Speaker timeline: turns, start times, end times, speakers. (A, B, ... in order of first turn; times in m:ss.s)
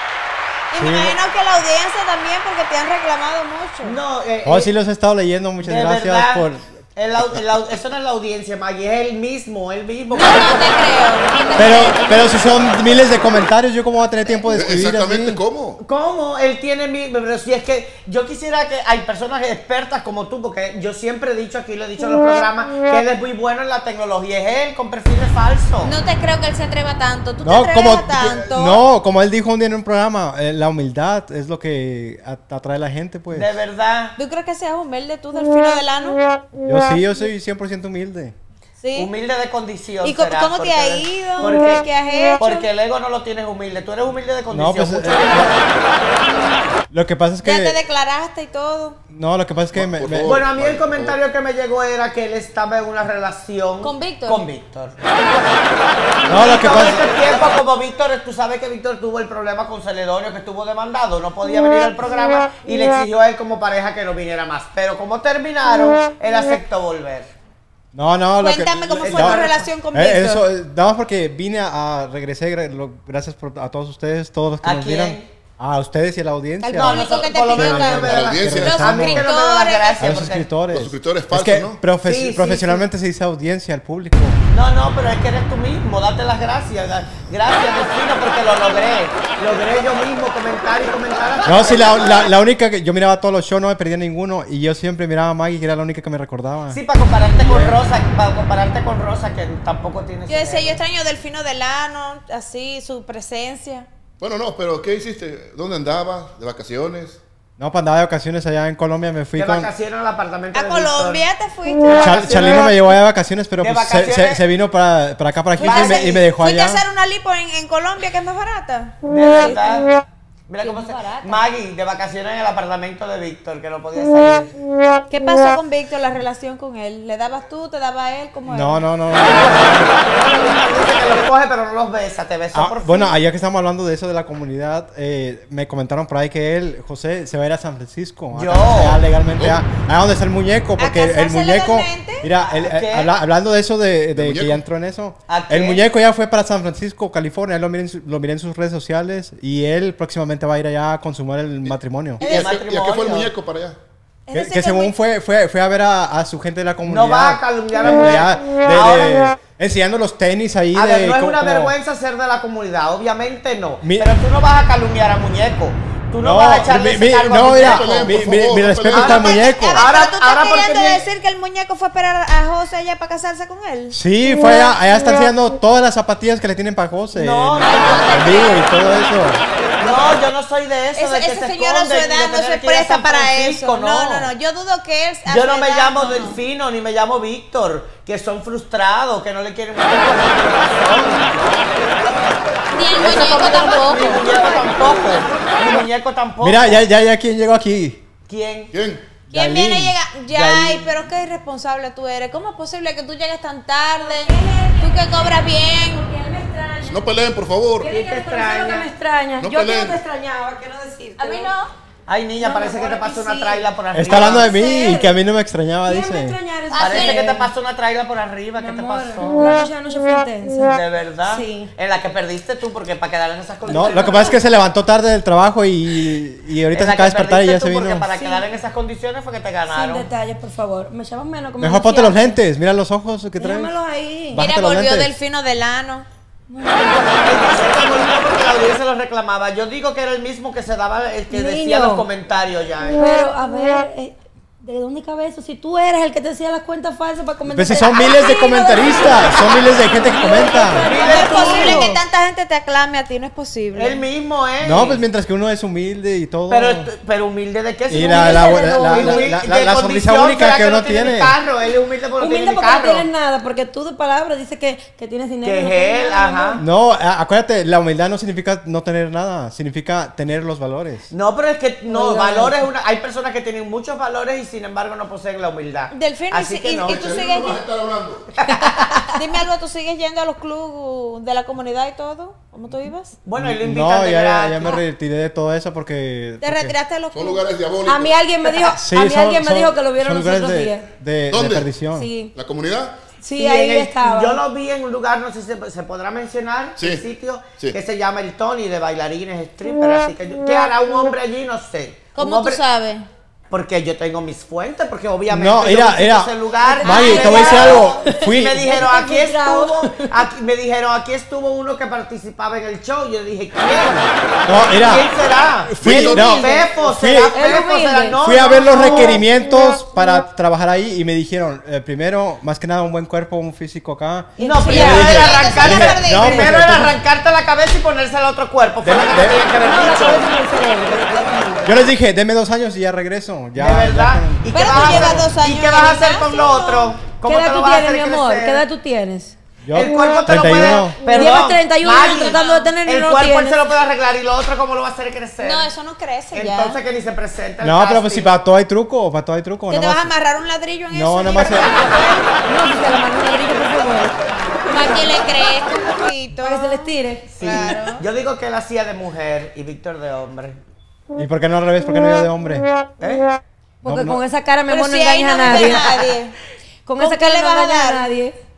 0:00.7-0:04.0 A
0:00.8-0:01.2 B
0:03.8-0:04.7 C
0:04.4-0:06.6 B
0:05.6-0:10.7 C
0:10.1-0:12.4 A
0:11.6-0:15.4 B
0:14.4-0:15.8 D
0:15.8-0:25.9 C
0:25.8-0:28.8 A
0:27.4-0:33.5 B
0:33.3-0:34.2 C
0:34.2-0:36.2 A
0:36.6-0:38.3 B
0:38.8-0:39.1 A
0:38.9-0:41.9 C
0:40.0-0:42.6 A
0:42.4-0:45.7 C
0:44.5-0:45.5 B
0:46.9-0:47.8 B
0:47.4-0:49.0 A
0:49.1-0:50.4 B
0:49.7-0:51.2 D
0:50.2-0:55.0 C
0:53.8-0:54.5 A
0:56.2-0:57.0 B
0:56.3-1:07.3 C
1:07.9-1:19.3 B
1:08.4-1:10.4 A
1:09.0-1:09.6 C
1:14.6-1:15.3 C
1:16.6-1:20.1 A
1:16.7-1:20.6 C
1:18.0-1:18.9 D
1:20.0-1:24.4 B
1:20.7-1:21.8 D
1:21.9-1:22.8 C
1:24.5-1:32.3 C
1:31.4-1:36.8 B
1:36.7-1:40.8 C
1:37.4-1:37.8 B
1:40.3-1:43.9 A
1:44.2-1:47.2 D
1:47.6-1:49.7 B
1:49.4-1:51.2 C
1:50.5-1:52.3 A
1:51.9-1:52.9 C
1:52.0-1:56.8 B
1:53.6-1:54.4 C
1:55.6-1:58.9 A
1:55.6-1:56.2 C
1:59.0-1:59.9 C
2:00.5-2:04.6 C
2:00.6-2:01.4 E
2:05.1-2:08.8 A
2:08.5-2:09.9 B
2:09.2-2:13.1 C
2:12.5-2:32.5 B
2:18.3-2:19.0 C
2:19.4-2:19.6 D
2:20.8-2:22.3 A
2:22.4-2:23.1 C
2:24.1-2:24.6 D
2:25.3-2:25.8 C
2:31.6-2:33.8 D
2:32.2-2:33.3 C
2:34.3-2:34.9 A
2:34.3-2:41.7 B
2:36.8-2:39.3 C
2:40.7-2:48.2 C
2:43.8-2:44.1 B
2:46.2-2:49.8 B
2:47.3-2:49.6 D
2:48.9-2:51.0 C
2:49.0-2:54.0 A
2:53.9-2:59.4 B
2:54.3-2:54.7 E
2:57.1-2:58.1 C
2:57.6-2:58.7 A
2:59.8-3:04.3 C
3:00.9-3:06.4 A
3:05.3-3:12.2 C
3:12.7-3:14.8 A
3:13.0-3:16.8 C
3:16.4-3:18.0 B
3:18.3-3:18.7 C
3:18.7-3:19.1 D
3:19.3-3:20.9 B
3:19.3-3:26.0 A
3:24.0-3:27.0 E
3:26.8-3:28.0 D
3:27.8-3:31.5 E
3:27.9-3:28.9 C
3:29.4-3:30.0 D
3:31.2-3:31.7 A
3:32.1-3:34.6 C
3:32.4-3:35.1 E
3:33.9-3:36.4 B
3:34.3-3:35.0 A
3:35.8-3:37.5 E
3:36.7-3:37.2 A
3:36.8-3:39.6 C
3:38.6-3:41.7 E
3:40.6-3:44.4 C
3:43.7-3:48.1 B
3:46.7-3:50.1 C
3:48.1-3:48.4 E
3:49.7-3:52.4 E
3:51.6-3:53.7 B
3:53.4-3:54.4 E
3:54.3-3:55.1 B
3:54.4-3:56.0 A
3:56.5-3:57.7 E
3:57.2-4:03.2 C
4:01.3-4:02.1 E
4:03.0-4:12.0 E
4:07.4-4:10.9 B
4:10.8-4:11.9 C
4:11.0-4:14.0 A
4:13.7-4:15.0 C
4:14.6-4:16.9 B
4:16.5-4:23.0 C
4:17.9-4:21.3 B
4:17.9-4:19.4 E
4:22.2-4:26.6 E
4:25.4-4:26.6 C
4:26.6-4:31.1 B
4:31.1-4:37.2 C
4:31.9-4:32.6 E
4:35.9-4:37.6 A
4:36.8-4:38.4 D
4:38.4-4:39.0 C
4:39.1-4:43.2 A
4:43.2-4:44.8 C
4:43.4-4:46.7 B
4:46.4-4:47.4 A
4:47.1-4:48.2 D
4:47.8-4:50.9 E
4:48.8-4:52.1 B
4:51.3-4:51.8 D
4:51.9-4:52.3 E
4:52.3-4:53.1 D
4:53.2-4:54.4 E
4:53.3-5:02.6 C
4:56.8-4:57.0 D
5:02.1-5:03.0 A
5:03.5-5:19.2 C
5:05.3-5:08.7 B
5:06.6-5:10.1 E
5:06.8-5:08.0 A
5:14.4-5:15.1 B
5:15.6-5:17.4 B
5:15.8-5:16.7 D
5:17.3-5:19.2 E
5:18.2-5:27.0 B
5:24.4-5:25.4 E
5:24.4-5:30.2 C
5:24.6-5:26.5 A
5:28.8-5:29.4 B
5:29.6-5:31.9 E
5:31.6-5:35.3 B
5:33.6-5:38.6 C
5:34.5-5:36.9 A
5:37.2-5:39.3 E
5:39.6-5:41.1 B
5:39.7-5:45.7 C
5:41.0-5:43.6 E
5:42.0-5:42.7 A
5:45.4-5:46.8 A
5:46.3-5:48.4 C
5:47.6-5:50.1 B
5:49.7-5:52.3 A
5:50.9-5:51.8 B
5:51.6-5:52.2 C
5:52.4-5:55.2 E
5:54.7-5:58.0 A
5:56.4-5:57.7 E
5:57.3-6:00.6 C
6:01.2-6:02.6 B
6:03.0-6:03.2 C
6:03.8-6:06.1 E
6:03.8-6:04.2 B
6:04.7-6:06.3 A
6:06.8-6:08.3 E
6:07.0-6:08.1 A